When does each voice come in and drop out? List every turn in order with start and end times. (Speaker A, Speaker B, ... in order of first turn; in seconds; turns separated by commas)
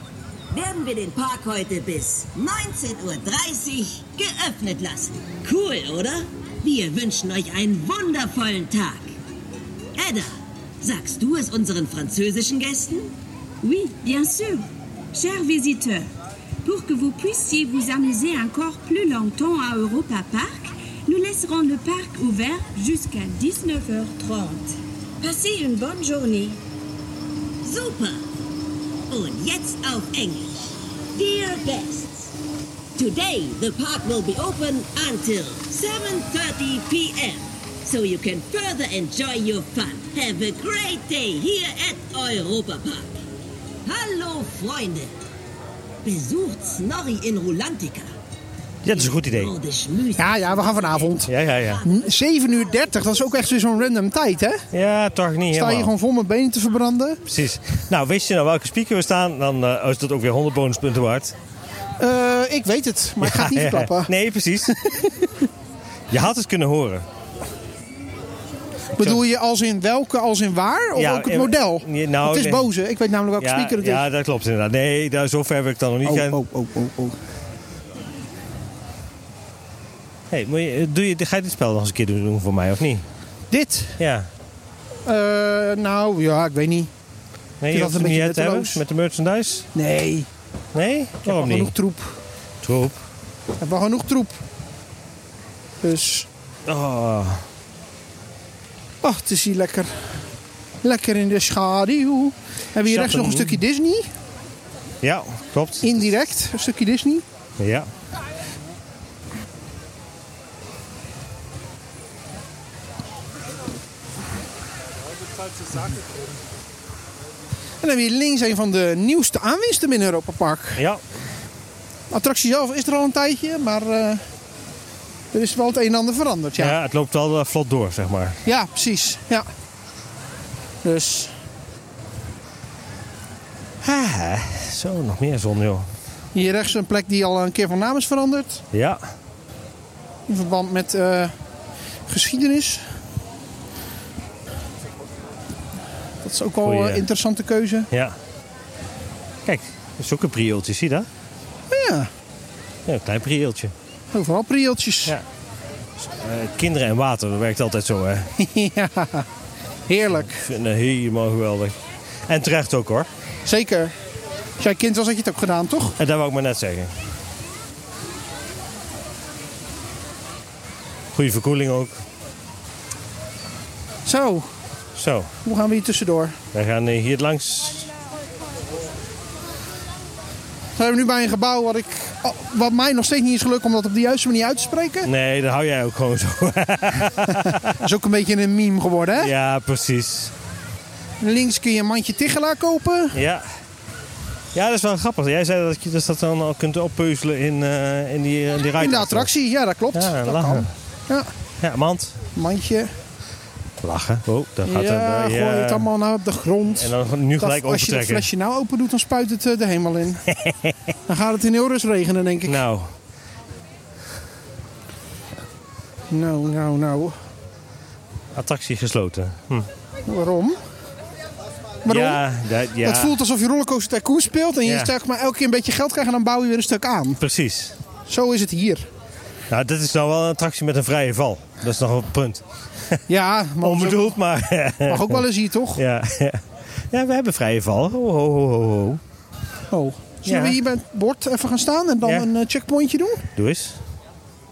Speaker A: 0.5-9.2, Speaker A: 9.9-13.1, Speaker B: 13.6-16.1, Speaker B: 16.6-26.6, Speaker A: 27.6-28.2, Speaker A: 29.1-32.3, Speaker A: 33.0-43.2, Speaker A: 43.8-45.1, Speaker A: 46.0-48.1, Speaker C: 48.8-49.5, Speaker A: 48.8-51.1, Speaker D: 50.2-51.3, Speaker C: 51.3-51.8, Speaker D: 51.8-54.6, Speaker C: 54.7-55.9, Speaker D: 55.5-57.2, Speaker C: 57.2-61.4, Speaker D: 62.0-64.1, Speaker C: 63.2-64.8, Speaker D: 64.7-65.3, Speaker C: 66.1-67.0, Speaker D: 69.0-74.0, Speaker C: 70.9-72.7, Speaker C: 73.4-76.4, Speaker D: 76.0-77.2, Speaker C: 80.3-83.0, Speaker D: 83.5-84.0, Speaker C: 84.0-84.3, Speaker D: 85.0-86.9, Speaker C: 87.6-89.7, Speaker D: 87.7-88.8, Speaker D: 89.7-90.3, Speaker C: 90.7-91.7, Speaker D: 91.2-92.2, Speaker C: 92.6-93.0, Speaker D: 93.6-94.3, Speaker D: 95.8-96.3, Speaker C: 96.7-97.5, Speaker D: 99.0-100.0, Speaker D: 100.8-104.1, Speaker C: 102.8-103.6, Speaker C: 105.0-106.1, Speaker D: 105.8-107.2, Speaker C: 107.6-107.9, Speaker D: 117.8-120.8, Speaker C: 120.8-121.0, Speaker D: 122.1-124.2, Speaker D: 125.3-126.8, Speaker C: 126.6-128.4, Speaker D: 128.4-129.5, Speaker D: 130.8-131.3, Speaker C: 133.8-135.9, Speaker D: 136.3-138.6, Speaker C: 138.7-139.1, Speaker D: 140.3-141.3, Speaker D: 142.1-142.9, Speaker D: 146.2-147.9, Speaker C: 146.6-147.0, Speaker C: 147.9-148.2, Speaker C: 149.4-151.1, Speaker D: 151.7-152.1, Speaker C: 152.8-153.7, Speaker D: 154.1-155.2, Speaker C: 156.0-158.3, Speaker D: 158.4-159.3, Speaker D: 159.9-160.4, Speaker C: 160.1-163.1, Speaker D: 163.4-163.9, Speaker D: 164.6-166.0, Speaker C: 166.0-166.9, Speaker C: 171.1-172.0, Speaker D: 174.0-174.5, Speaker C: 174.9-175.3, Speaker D: 175.4-176.4, Speaker C: 176.5-177.9, Speaker D: 180.8-185.1, Speaker C: 185.0-187.8, Speaker D: 187.3-189.3, Speaker C: 189.2-190.3, Speaker D: 191.2-193.2, Speaker C: 193.1-193.5, Speaker C: 194.5-199.3, Speaker D: 198.8-201.3, Speaker C: 199.9-200.7, Speaker C: 201.6-202.2, Speaker D: 202.3-202.9, Speaker C: 203.8-205.9, Speaker D: 204.6-210.2, Speaker C: 206.8-208.3, Speaker C: 210.3-210.8, Speaker D: 211.1-212.6, Speaker C: 212.4-212.9, Speaker D: 216.1-217.2, Speaker C: 218.3-219.7, Speaker D: 220.1-220.6, Speaker D: 221.8-222.2, Speaker C: 221.9-223.2, Speaker D: 222.8-227.2, Speaker C: 224.6-224.9, Speaker C: 227.2-227.8, Speaker D: 228.1-228.9, Speaker C: 229.5-233.0, Speaker D: 233.1-234.2, Speaker C: 233.6-239.0, Speaker D: 234.9-235.8, Speaker D: 239.7-243.2, Speaker C: 240.2-240.6, Speaker C: 242.0-242.3, Speaker C: 243.3-243.8